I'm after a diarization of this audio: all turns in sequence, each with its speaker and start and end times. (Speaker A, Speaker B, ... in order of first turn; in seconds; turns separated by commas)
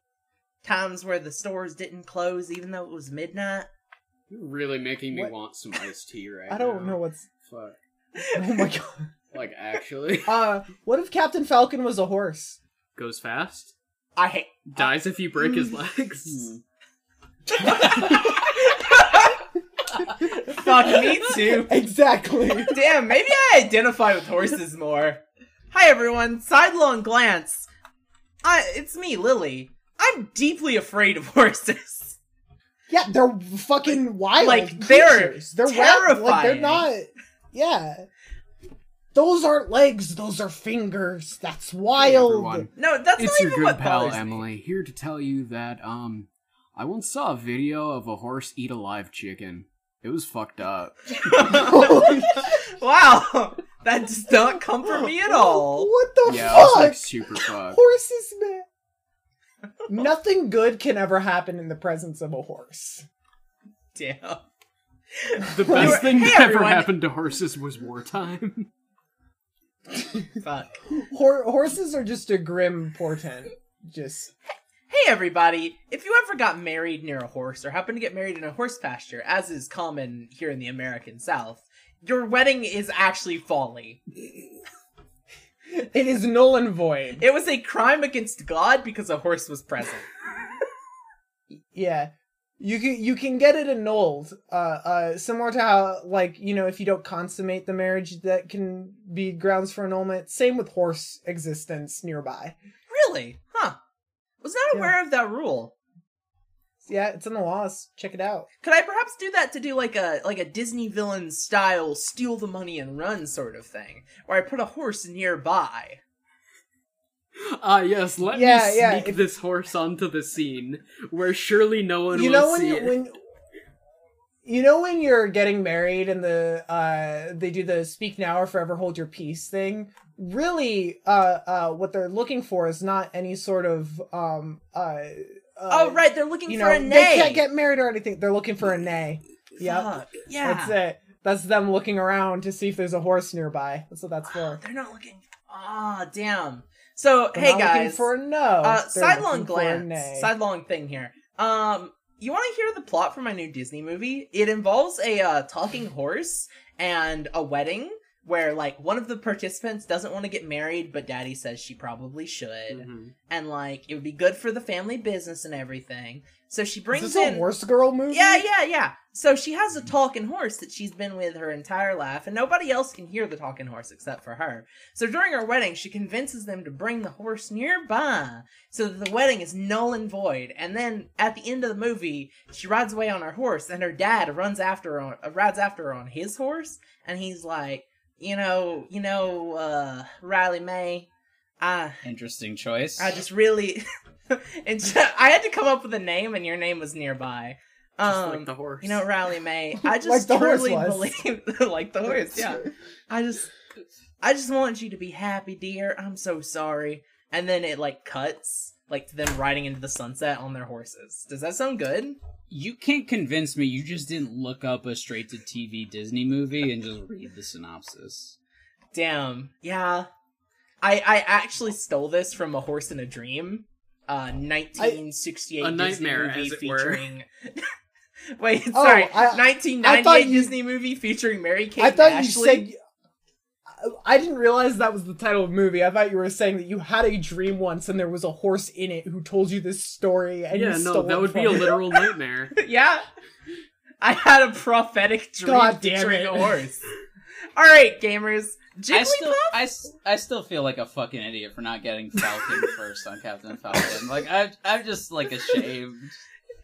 Speaker A: 0.6-3.7, Speaker B: 4.3-7.8, Speaker C: 6.5-7.3, Speaker A: 8.2-8.6, Speaker C: 8.3-9.1, Speaker B: 9.3-10.4, Speaker C: 10.2-12.6, Speaker B: 12.9-13.7, Speaker A: 14.2-14.9, Speaker B: 14.7-16.5, Speaker A: 15.4-15.7, Speaker D: 16.2-16.6, Speaker A: 17.5-19.4, Speaker A: 20.0-21.7, Speaker C: 21.1-22.8, Speaker A: 22.7-27.7, Speaker A: 28.4-32.2, Speaker C: 32.9-38.0, Speaker A: 33.9-36.9, Speaker C: 39.1-42.7, Speaker B: 42.0-51.8, Speaker A: 42.8-44.4, Speaker A: 51.1-55.9, Speaker C: 51.5-52.5, Speaker C: 55.0-58.6, Speaker B: 56.2-57.8, Speaker C: 59.9-63.0, Speaker A: 63.9-64.4, Speaker A: 65.1-66.9, Speaker B: 65.5-68.7, Speaker C: 65.6-66.2, Speaker C: 70.0-70.2, Speaker A: 70.4-70.8, Speaker C: 70.9-74.3, Speaker A: 74.9-84.0, Speaker C: 85.8-87.2, Speaker A: 87.2-90.1, Speaker C: 91.5-102.6, Speaker A: 102.9-103.8, Speaker A: 104.4-105.7, Speaker C: 106.8-108.5, Speaker A: 108.6-116.0, Speaker B: 117.3-123.0, Speaker C: 118.3-119.2, Speaker C: 122.1-123.2, Speaker C: 124.4-144.6, Speaker A: 135.7-137.4, Speaker A: 139.6-140.8, Speaker A: 144.2-148.1, Speaker C: 147.3-150.3, Speaker A: 148.6-167.4, Speaker B: 162.7-163.1, Speaker C: 166.9-168.4, Speaker A: 168.1-191.1, Speaker A: 191.6-192.0, Speaker D: 192.0-193.2, Speaker A: 193.0-203.5, Speaker B: 198.1-199.0, Speaker C: 199.8-201.2, Speaker C: 202.1-202.7, Speaker A: 204.2-212.2, Speaker D: 212.5-218.3, Speaker A: 218.9-220.1, Speaker A: 220.8-227.7, Speaker B: 225.6-227.1, Speaker A: 228.4-232.7, Speaker C: 228.7-230.5, Speaker C: 231.8-232.8, Speaker C: 233.7-241.8, Speaker B: 240.5-242.5, Speaker A: 242.5-243.1, Speaker A: 244.0-246.8, Speaker C: 245.4-246.6, Speaker A: 247.5-249.6, Speaker D: 248.9-256.2